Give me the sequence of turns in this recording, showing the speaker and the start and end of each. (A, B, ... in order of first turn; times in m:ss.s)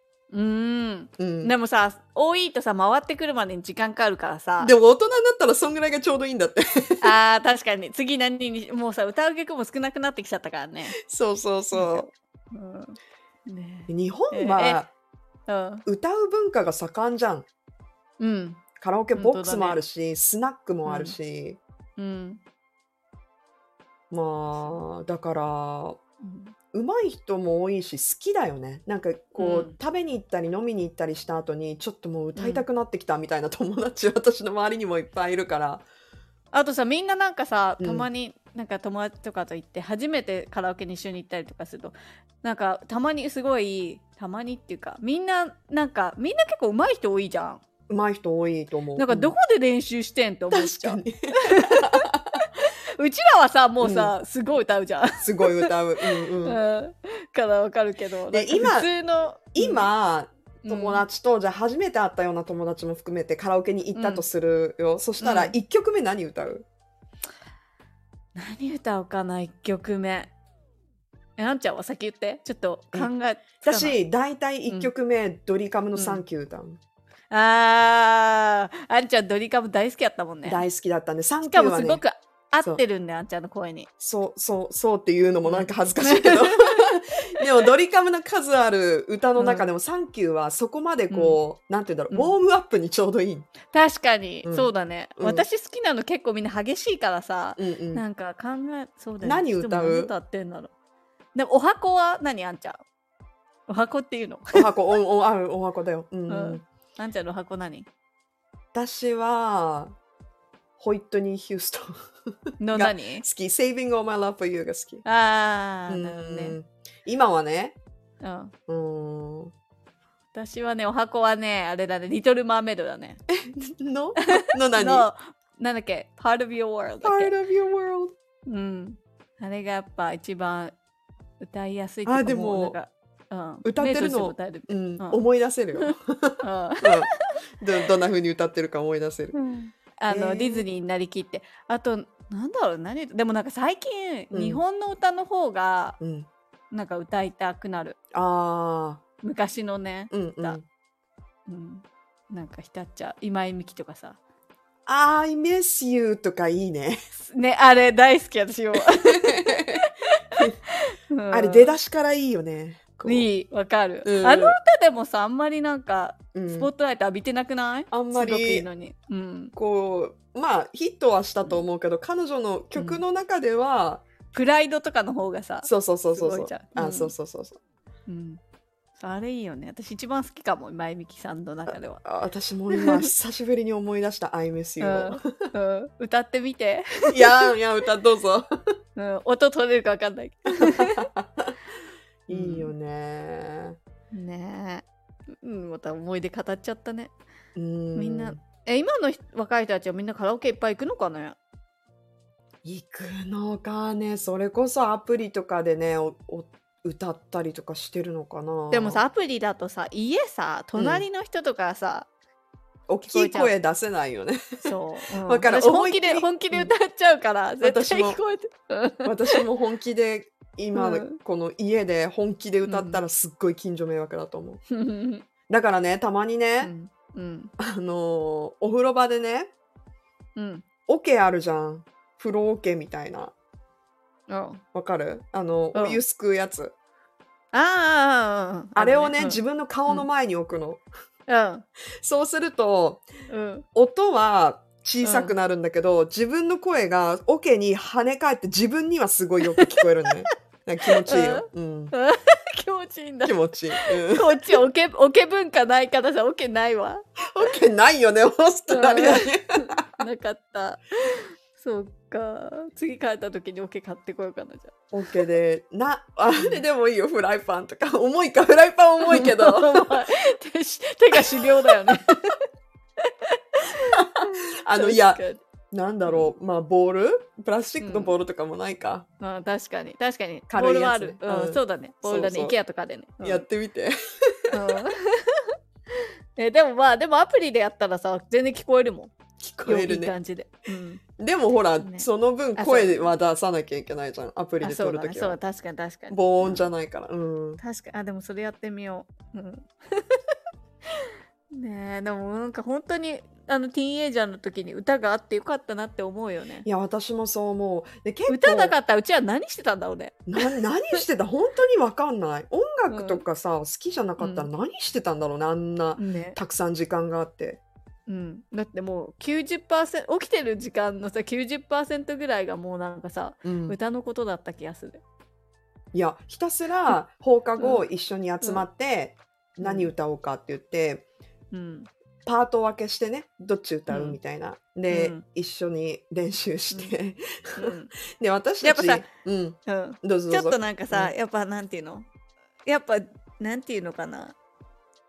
0:00.3-0:04.7 A
0:01.2-0:01.5 B
0:04.6-0:07.1 B
0:07.0-0:11.0 A
0:11.0-0:12.0 B
0:11.7-0:14.8 A
0:13.9-0:14.9 B
0:15.5-0:15.8 A
0:15.8-0:17.4 B
0:18.2-0:18.6 A
0:18.8-0:21.6 B
0:19.1-0:19.8 A
0:20.8-0:21.2 A
0:22.0-0:22.4 A
0:24.1-0:26.0 B
0:24.5-0:24.8 A
0:26.2-0:26.5 A
0:26.7-0:35.8 B
0:29.4-0:29.8 A
0:32.4-0:32.6 A
0:36.5-0:47.6 A
0:37.8-0:38.1 B
0:47.9-0:49.3 B
0:49.0-0:55.7 A
0:50.5-0:52.4 B
0:53.8-0:54.1 B
0:55.2-0:56.6 B
0:56.4-0:59.9 A
0:58.3-0:58.9 B
0:59.5-1:06.6 B
1:00.6-1:01.0 A
1:03.9-1:04.2 A
1:05.2-1:05.6 A
1:08.4-1:10.3 A
1:11.4-1:14.0 A
1:13.6-1:16.8 B
1:15.9-1:16.2 A
1:17.3-1:20.6 A
1:20.4-1:22.0 B
1:21.5-1:23.9 A
1:24.0-1:33.5 B
1:25.4-1:27.4 A
1:29.4-1:29.7 A
1:31.1-1:31.4 A
1:33.7-1:40.7 A
1:34.4-1:35.4 B
1:37.6-1:38.0 B
1:39.2-1:40.1 B
1:41.3-1:42.8 A
1:43.7-1:44.7 A
1:44.5-1:46.6 B
1:46.3-1:47.9 A
1:48.7-1:49.9 B
1:50.8-1:55.0 B
1:52.6-1:53.2 A
1:55.0-1:56.6 A
1:55.9-1:57.8 B
1:58.2-1:58.5 A
1:58.7-1:59.5 B
2:00.3-2:03.2 A
2:03.3-2:05.1 B
2:04.3-2:07.3 A
2:07.0-2:08.1 B
2:08.4-2:10.7 A
2:11.4-2:15.2 A
2:12.0-2:12.8 B
2:13.6-2:19.3 B
2:15.8-2:17.3 A
2:19.3-2:26.0 A
2:20.1-2:20.6 B
2:24.3-2:24.6 B
2:26.0-2:26.3 B
2:26.7-2:28.0 A
2:28.1-2:29.0 B
2:29.2-2:30.6 A
2:30.1-2:30.6 B
2:31.5-2:34.2 A
2:34.9-2:37.0 B
2:37.2-2:41.7 A
2:38.8-2:40.6 B
2:41.3-2:43.3 B
2:43.0-2:49.5 A
2:44.0-2:44.6 B
2:46.3-2:46.7 B
2:47.9-2:48.7 B
2:49.5-2:54.0 B
2:52.8-2:53.0 A
2:54.3-2:57.1 A
2:55.6-2:57.6 B
2:58.1-2:58.4 A
2:59.0-3:02.0 A
3:01.7-3:05.5 B
3:02.7-3:03.1 A
3:04.8-3:07.5 A
3:07.1-3:08.5 B
3:09.0-3:11.1 A
3:10.6-3:11.5 B
3:12.3-3:13.8 B
3:12.3-3:12.7 A
3:14.1-3:14.8 A
3:15.4-3:17.1 A
3:17.5-3:18.4 B
3:18.0-3:21.4 A
3:22.6-3:29.0 B
3:28.7-3:32.1 A
3:30.8-3:31.0 B
3:32.9-3:34.7 B
3:33.0-3:33.5 A
3:34.6-3:39.4 A
3:35.2-3:36.7 B
3:37.6-3:38.2 B
3:39.0-3:44.6 B
3:40.7-3:41.2 A
3:42.6-3:43.0 A
3:44.7-3:45.2 A
3:45.5-3:46.7 B
3:46.6-3:47.5 A
3:47.6-3:49.5 B
3:50.4-3:50.6 A
3:50.9-3:53.3 B
3:54.3-3:54.6 A
3:54.7-3:56.7 B
3:55.7-3:56.0 A
3:57.5-4:00.1 A
3:58.8-4:00.8 B
4:01.3-4:01.6 A
4:02.0-4:03.0 B
4:03.3-4:03.6 A
4:03.7-4:11.9 B
4:05.0-4:05.3 A
4:09.5-4:09.8 A
4:11.0-4:17.0 A
4:13.2-4:14.6 B
4:17.3-4:19.8 B
4:18.7-4:24.7 A
4:24.9-4:30.1 B
4:26.4-4:26.6 A
4:29.0-4:32.4 A
4:31.1-4:31.9 B
4:33.0-4:35.4 A
4:33.9-4:35.2 B
4:35.7-4:39.0 B
4:36.0-4:36.3 A
4:37.8-4:38.1 A
4:39.2-4:43.4 A
4:40.5-4:42.6 B
4:43.2-4:44.8 B
4:44.5-4:45.5 A
4:46.4-4:51.0 A
4:49.4-4:50.1 B
4:51.2-4:55.4 B
4:51.8-4:53.1 A
4:54.6-4:56.7 A
4:56.1-4:57.6 B
4:57.6-5:00.2 A
5:00.9-5:06.6 A
5:06.6-5:08.7 B
5:08.3-5:11.0 A
5:10.3-5:17.6 B
5:12.9-5:13.2 A
5:14.2-5:14.5 A
5:16.0-5:16.4 A
5:18.1-5:25.0 A
5:23.4-5:23.8 B
5:25.9-5:31.0 B
5:27.6-5:27.8 A
5:29.6-5:29.9 A
5:31.5-5:31.9 A
5:32.2-5:41.1 B
5:33.9-5:34.2 A
5:34.9-5:35.2 A
5:37.6-5:37.9 A
5:38.6-5:39.0 A
5:39.7-5:42.1 A
5:42.6-5:44.3 A